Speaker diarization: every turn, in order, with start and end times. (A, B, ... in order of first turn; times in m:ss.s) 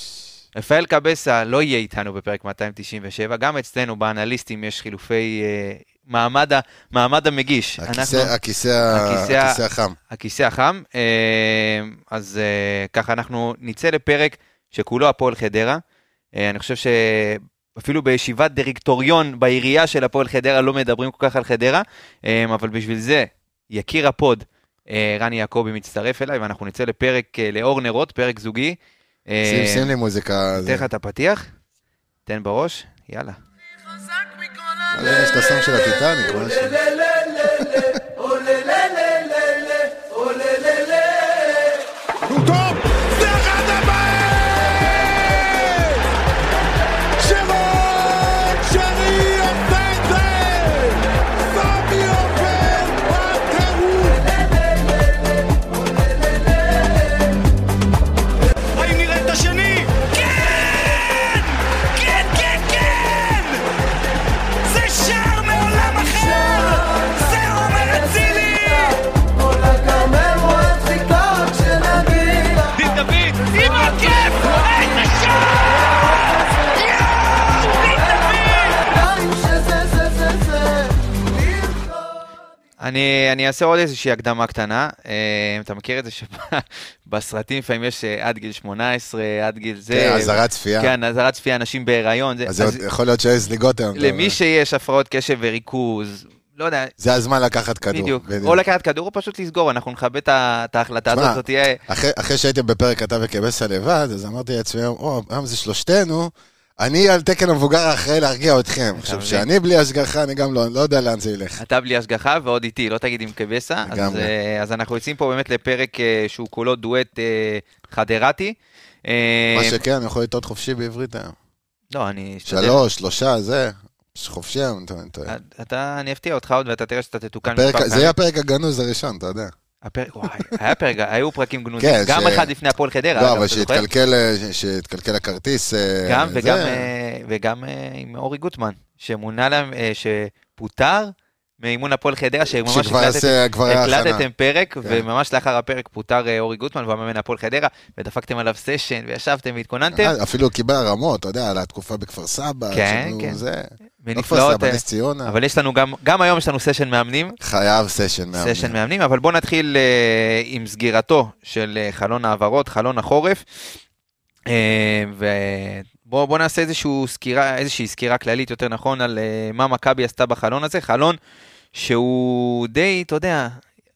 0:00.5-0:08.3 A
0:07.8-0:10.0 B
0:08.9-0:15.8 A
0:16.3-0:29.9 A
0:29.4-0:30.9 B
0:30.6-0:31.5 A
0:32.3-0:33.4 A
0:34.9-0:36.8 B
0:37.6-0:38.0 B
0:42.2-0:46.1 C
0:47.2-0:54.4 C
0:58.7-1:03.6 C
1:04.6-1:09.1 C
1:09.6-1:15.9 C
1:17.3-1:19.3 C
1:22.8-1:32.8 A
1:29.9-1:30.9 B
1:32.4-1:34.4 B
1:33.9-1:36.9 A
1:37.0-1:38.6 B
1:37.9-1:41.8 A
1:41.1-1:51.6 B
1:48.9-1:49.4 A
1:51.6-1:59.8 A
1:53.8-1:54.3 B
1:59.5-2:01.3 B
2:01.9-2:02.8 A
2:02.5-2:05.3 B
2:05.3-2:08.1 A
2:07.5-2:09.5 B
2:09.8-2:13.8 A
2:11.8-2:12.5 B
2:13.2-2:16.9 B
2:16.0-2:30.1 A
2:22.5-2:24.2 B
2:29.9-2:35.3 B
2:32.7-2:33.4 A
2:34.0-2:37.4 A
2:37.4-2:38.8 B
2:38.3-2:43.4 A
2:44.5-2:51.2 A
2:51.7-2:53.6 A